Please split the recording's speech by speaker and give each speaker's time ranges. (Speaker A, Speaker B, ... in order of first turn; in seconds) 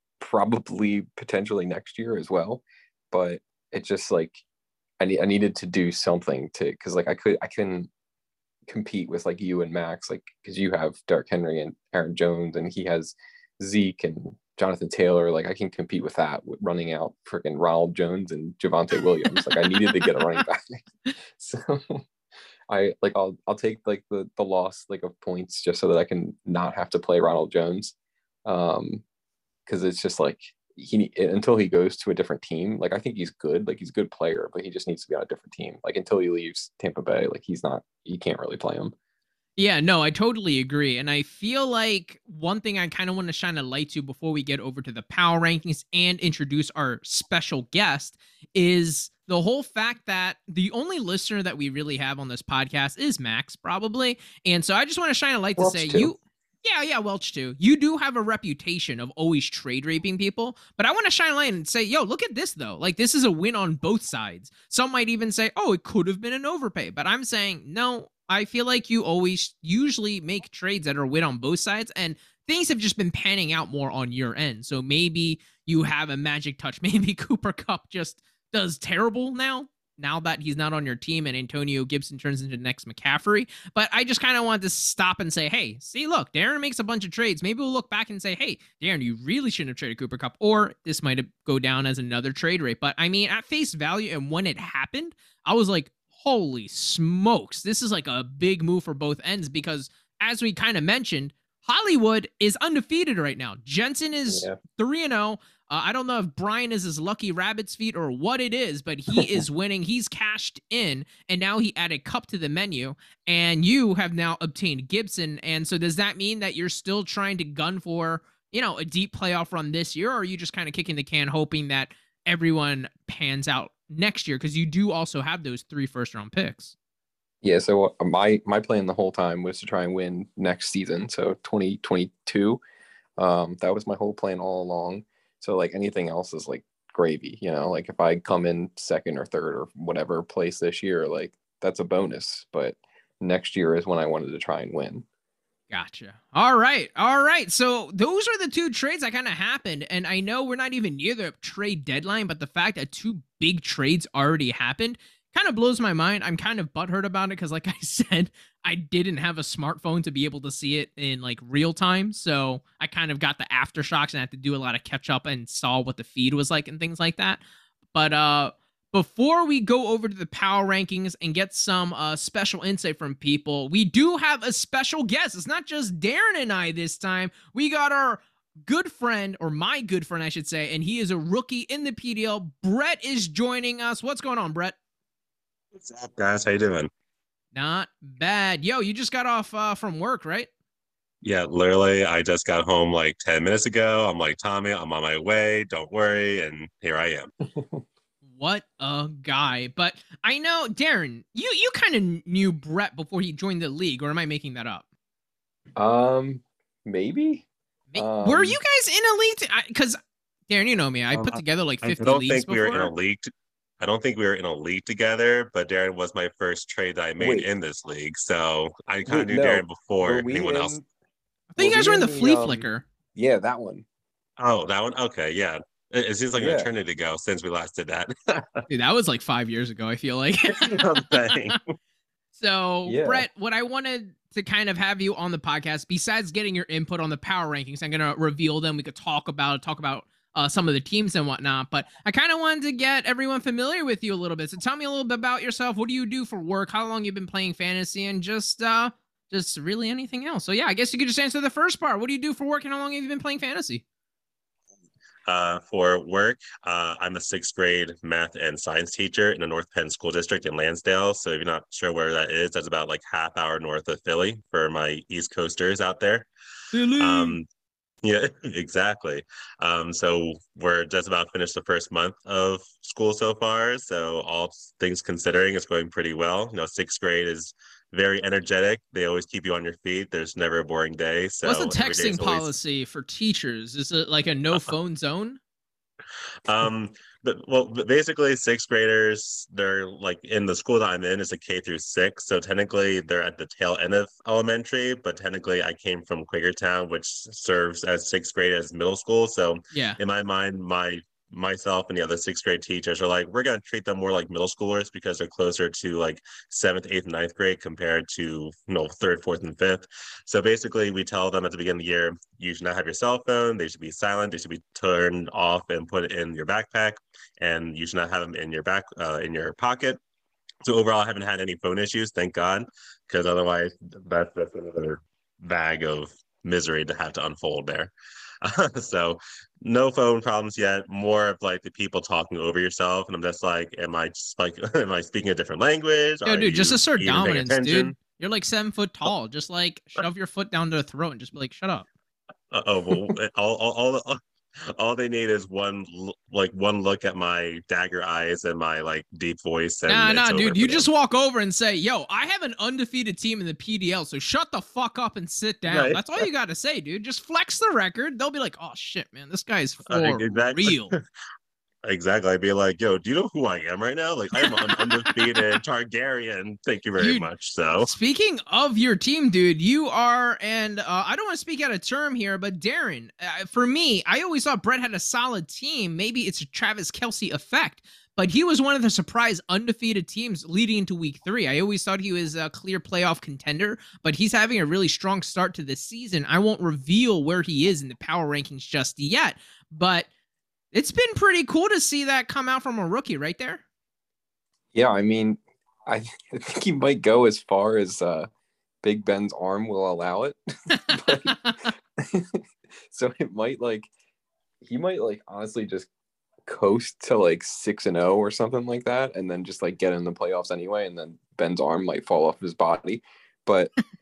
Speaker A: 0.2-4.4, 5.0-7.9, 8.7-22.0, 22.7-27.9, 28.4-29.0, 29.7-38.9, 55.6-56.1, 104.3-104.6, 109.1-109.4, 127.4-132.6, 133.2-145.1, 197.5-197.8, 205.8-208.6, 217.2-217.5, 219.1-220.8, 221.6-223.8, 226.3-226.7, 232.9-233.3, 394.7-398.3, 398.8-400.4, 400.9-401.4, 402.0-403.9, 404.6-405.9, 406.5-413.7
Speaker B: 19.3-20.0, 39.6-126.7, 145.7-167.4, 167.9-184.8, 187.5-190.5, 198.3-204.8, 207.9-212.9, 221.5-222.9, 228.7-231.6, 232.3-253.8, 266.7-267.4, 281.4-285.4, 299.7-300.0, 336.2-341.9, 349.9-360.9, 364.4-365.6, 367.0-390.1, 390.7-393.6, 400.8-401.7
Speaker C: 185.8-186.9, 191.2-197.3, 211.1-220.8, 224.4-228.6, 230.4-231.7, 255.3-266.3, 267.0-267.5, 268.0-282.5, 286.5-320.0, 320.6-337.9, 342.5-350.9, 355.7-356.3, 359.9-361.0, 361.8-367.9